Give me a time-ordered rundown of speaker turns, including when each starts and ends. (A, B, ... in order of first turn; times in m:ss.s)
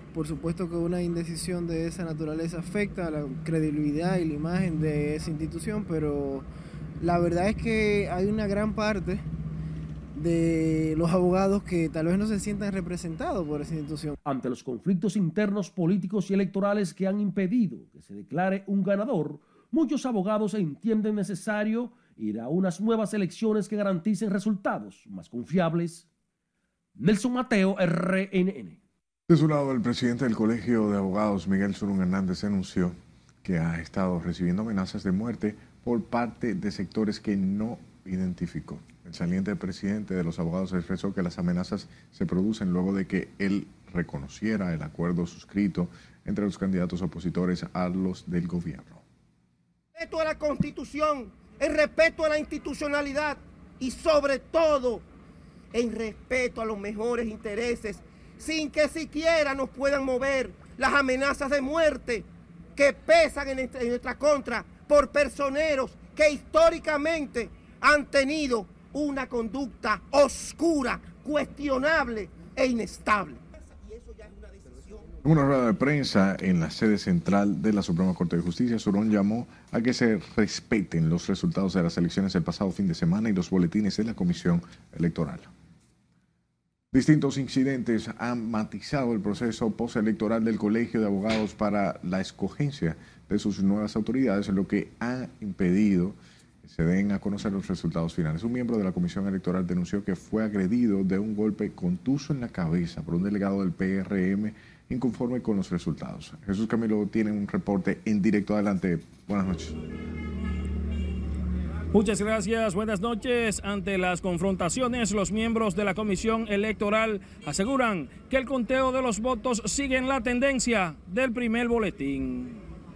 0:00.2-0:06.4 A
0:07.0-0:09.2 A
0:10.2-0:14.1 A
0:14.2-0:26.1 B
0:27.0-0:28.8 B
0:29.3-0:49.0 C
0:50.0-0:55.0 D
0:55.7-1:02.2 D
1:02.8-1:13.4 D
1:15.2-1:25.5 C
1:26.9-1:49.8 C
1:51.9-2:02.6 E